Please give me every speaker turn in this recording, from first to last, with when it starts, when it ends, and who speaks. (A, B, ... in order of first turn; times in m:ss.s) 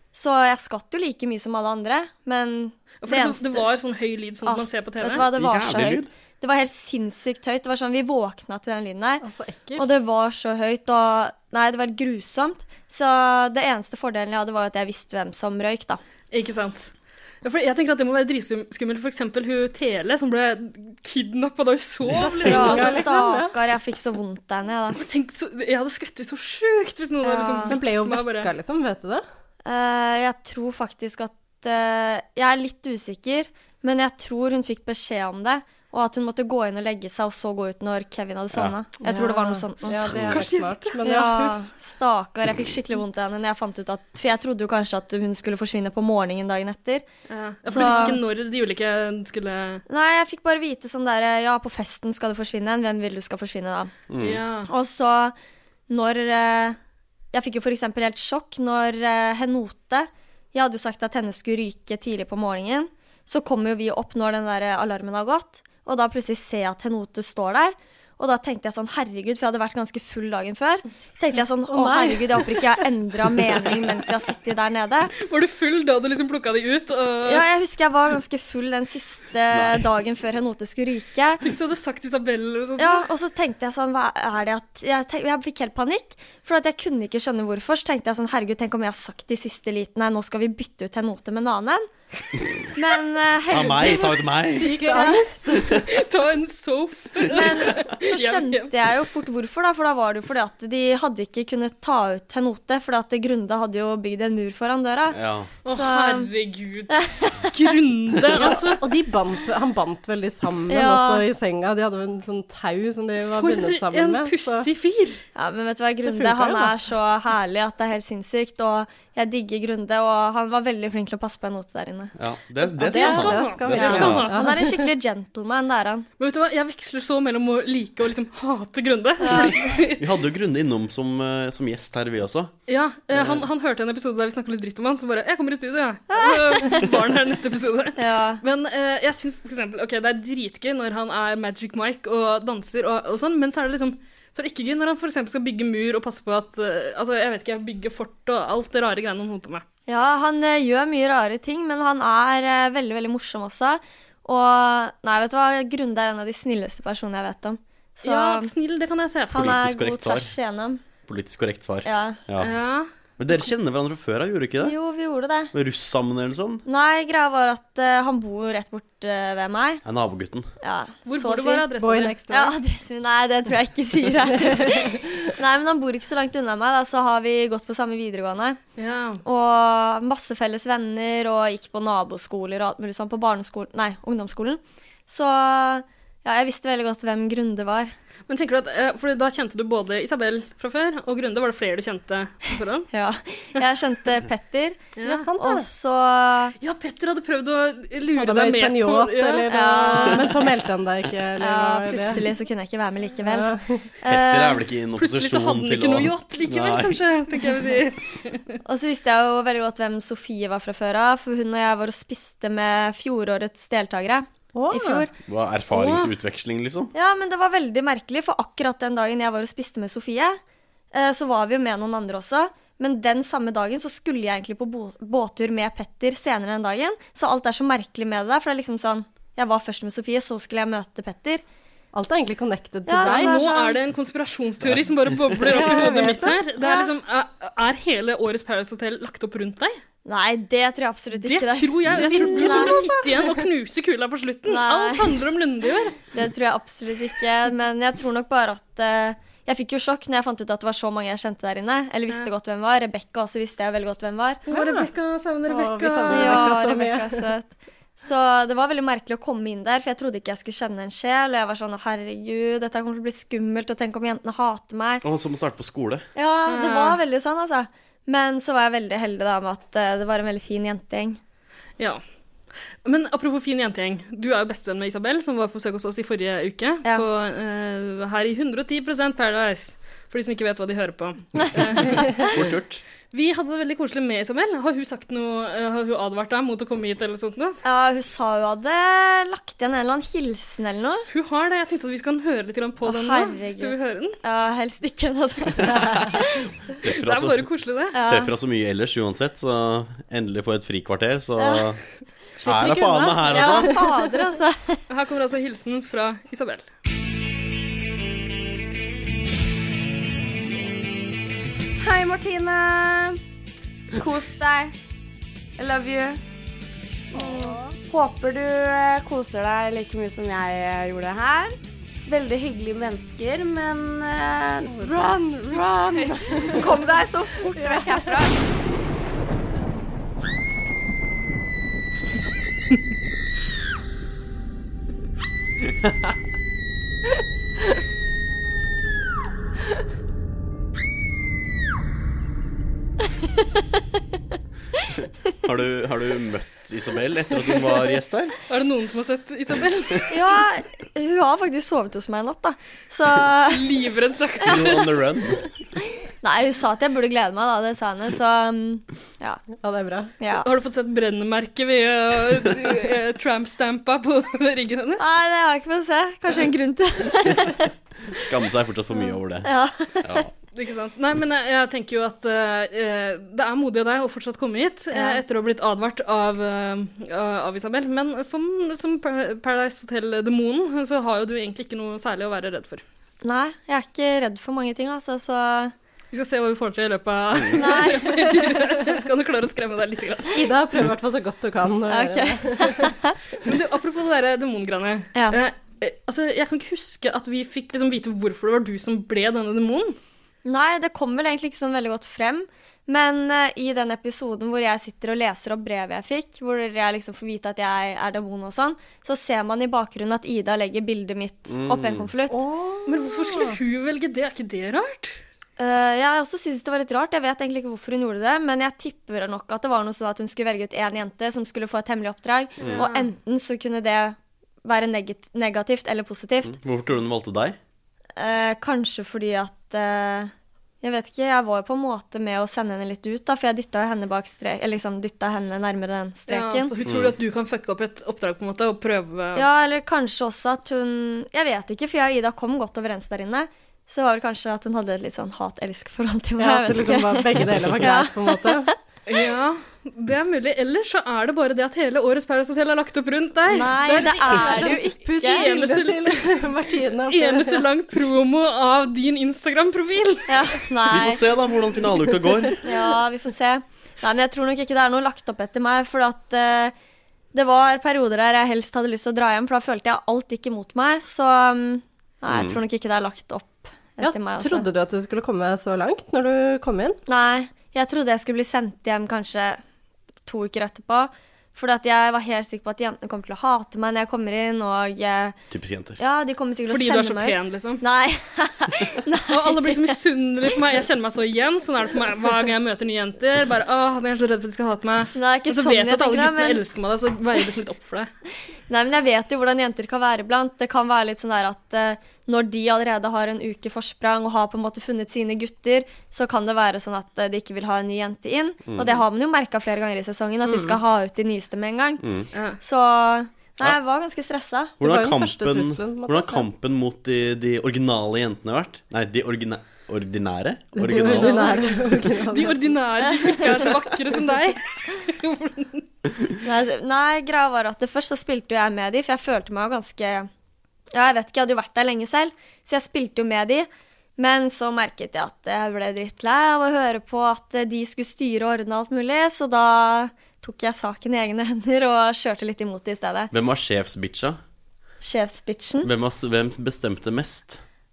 0:00.1-0:03.7 A
0:03.0-0:05.3 B
0:04.4-0:09.2 A
0:05.3-0:06.1 C
0:09.2-0:09.9 D
0:09.8-0:16.0 A
0:16.3-0:16.9 B
0:17.4-0:23.0 B
0:22.2-0:23.6 D
0:22.4-0:25.0 A
0:25.0-0:28.5 B
0:27.2-0:27.8 A
0:27.7-0:29.2 D
0:29.6-0:40.1 A
0:39.0-0:41.6 D
0:39.9-0:41.0 B
0:40.1-0:40.4 C
0:41.0-0:47.1 A
0:47.3-0:49.8 B
0:47.7-0:48.2 A
0:49.9-0:53.9 A
0:54.1-0:54.4 C
0:54.2-0:54.7 B
0:54.7-0:55.4 A
0:55.9-0:56.8 A
0:57.3-1:15.1 A
1:11.7-1:13.7 D
1:15.2-1:17.4 B
1:17.2-1:21.4 A
1:19.5-1:19.8 C
1:21.4-1:23.1 B
1:22.8-1:31.9 A
1:32.7-1:34.1 A
1:33.5-1:34.8 C
1:34.5-1:35.8 D
1:34.8-1:35.2 A
1:35.8-1:38.7 B
1:37.2-1:45.2 A
1:45.1-1:45.5 C
1:45.6-1:48.8 B
1:45.7-1:46.3 A
1:46.9-1:47.4 A
1:48.4-1:54.7 D
1:50.7-1:51.2 A
1:53.3-1:55.2 B
1:55.4-2:02.1 A
1:56.0-1:56.8 D
2:02.2-2:04.3 C
2:02.8-2:04.5 B
2:02.8-2:04.9 D
2:03.8-2:06.1 A
2:06.2-2:10.0 B
2:09.2-2:09.8 A
2:10.0-2:12.5 C
2:12.7-2:29.6 B
2:13.2-2:13.4 C
2:16.1-2:16.9 A
2:18.0-2:18.4 A
2:29.9-2:38.5 A
2:38.0-2:39.5 B
2:39.3-2:40.8 A
2:39.3-2:40.3 C
2:41.1-2:42.5 C
2:41.8-2:42.2 A
2:42.4-2:42.9 B
2:43.2-2:44.8 C
2:44.6-2:45.5 A
2:45.5-2:46.6 C
2:46.6-2:49.8 A
2:49.8-2:50.5 C
2:50.6-2:51.7 A
2:51.1-2:52.2 B
2:51.8-2:52.6 D
2:52.3-2:58.6 A
2:54.3-2:55.1 D
2:58.8-2:59.2 B
2:59.2-3:07.9 A
3:08.3-3:12.9 B
3:12.9-3:16.6 A
3:15.0-3:15.3 B
3:15.0-3:15.7 D
3:16.6-3:19.5 B
3:18.2-3:22.2 D
3:19.5-3:20.2 A
3:21.4-3:23.5 A
3:23.2-3:23.8 D
3:24.0-3:24.6 A
3:24.1-3:27.0 C
3:25.0-3:28.6 B
3:28.7-3:35.1 A
3:34.5-3:35.1 D
3:35.2-3:36.9 C
3:35.7-3:36.1 B
3:36.9-3:40.4 A
3:40.9-3:51.4 A
3:51.9-3:53.5 D
3:52.9-3:53.8 A
3:53.0-3:59.8 B
3:54.6-3:55.2 C
3:55.5-3:56.4 D
3:56.6-3:56.9 A
4:00.0-4:02.9 A
4:01.2-4:06.0 B
4:02.0-4:03.4 D
4:04.5-4:05.2 A
4:06.0-4:14.4 A
4:14.5-4:16.6 B
4:14.5-4:14.9 D
4:15.5-4:17.3 D
4:16.1-4:25.0 A
4:25.0-4:26.0 C
4:26.2-4:31.2 A
4:26.5-4:27.0 B
4:32.8-4:42.1 B
4:41.4-4:42.3 A
4:42.3-4:42.8 C
4:43.1-4:47.6 B
4:47.6-4:51.1 A
4:51.1-4:54.2 B
4:52.8-4:56.2 A
4:55.7-4:56.0 C
4:56.8-4:57.4 C
4:56.8-4:58.0 B
4:57.9-4:58.3 A
4:58.0-5:01.8 C
5:01.4-5:01.6 A
5:02.4-5:03.9 D
5:02.4-5:03.8 C
5:03.3-5:04.8 A
5:04.9-5:06.7 B
5:11.8-5:13.2 E
5:14.0-5:14.7 E
5:15.6-5:16.2 E
5:17.1-5:24.9 E
5:17.2-5:17.6 D
5:24.7-5:26.7 D
5:26.4-5:28.4 E
5:27.5-5:28.3 D
5:45.4-5:48.4 C
5:48.5-5:50.4 B
5:50.1-5:53.7 A
5:53.5-5:54.8 B
5:54.4-5:55.4 C
5:56.2-5:59.4 A
5:59.6-6:00.1 D
6:00.2-6:00.5 A
6:00.4-6:05.0 B
6:05.0-6:07.7 A
6:08.2-6:09.5 C
6:09.4-6:10.3 A
6:10.5-6:22.8 B
6:14.9-6:15.2 A
6:23.2-6:25.7 A
6:26.1-6:30.4 B
6:27.5-6:28.2 A
6:30.3-6:32.9 D
6:31.9-6:33.1 A
6:33.4-6:40.0 B
6:40.4-6:52.4 A
6:51.5-6:52.1 C
6:52.3-6:53.6 D
6:52.9-6:55.2 B
6:55.6-7:06.6 A
7:02.7-7:03.1 B
7:06.5-7:07.6 C
7:08.2-7:16.7 A
7:16.3-7:19.4 B
7:16.9-7:17.2 C
7:19.4-7:28.7 A
7:26.4-7:28.7 D
7:29.1-7:36.3 B
7:33.5-7:35.6 A
7:34.2-7:37.6 D
7:37.1-7:40.3 B
7:40.3-7:41.2 A
7:40.9-7:42.6 C
7:42.6-7:46.7 A
7:47.3-7:54.7 A
7:52.3-7:52.6 C
7:54.0-7:57.0 D
7:57.1-7:59.6 A
8:00.3-8:05.4 A
8:05.5-8:06.0 C
8:06.0-8:10.0 A
8:06.7-8:07.8 B
8:09.3-8:18.1 B
8:15.1-8:16.6 A
8:18.7-8:32.0 A
8:30.5-8:30.8 D
8:32.0-8:32.3 C
8:32.6-8:34.7 A
8:34.8-8:36.5 D
8:34.8-8:41.5 C
8:40.8-8:42.8 D
8:41.1-8:45.8 B
8:43.1-8:43.6 A
8:46.4-8:50.3 A
8:50.9-9:03.3 A
9:03.3-9:04.4 C
9:05.0-9:05.9 A
9:05.8-9:07.6 C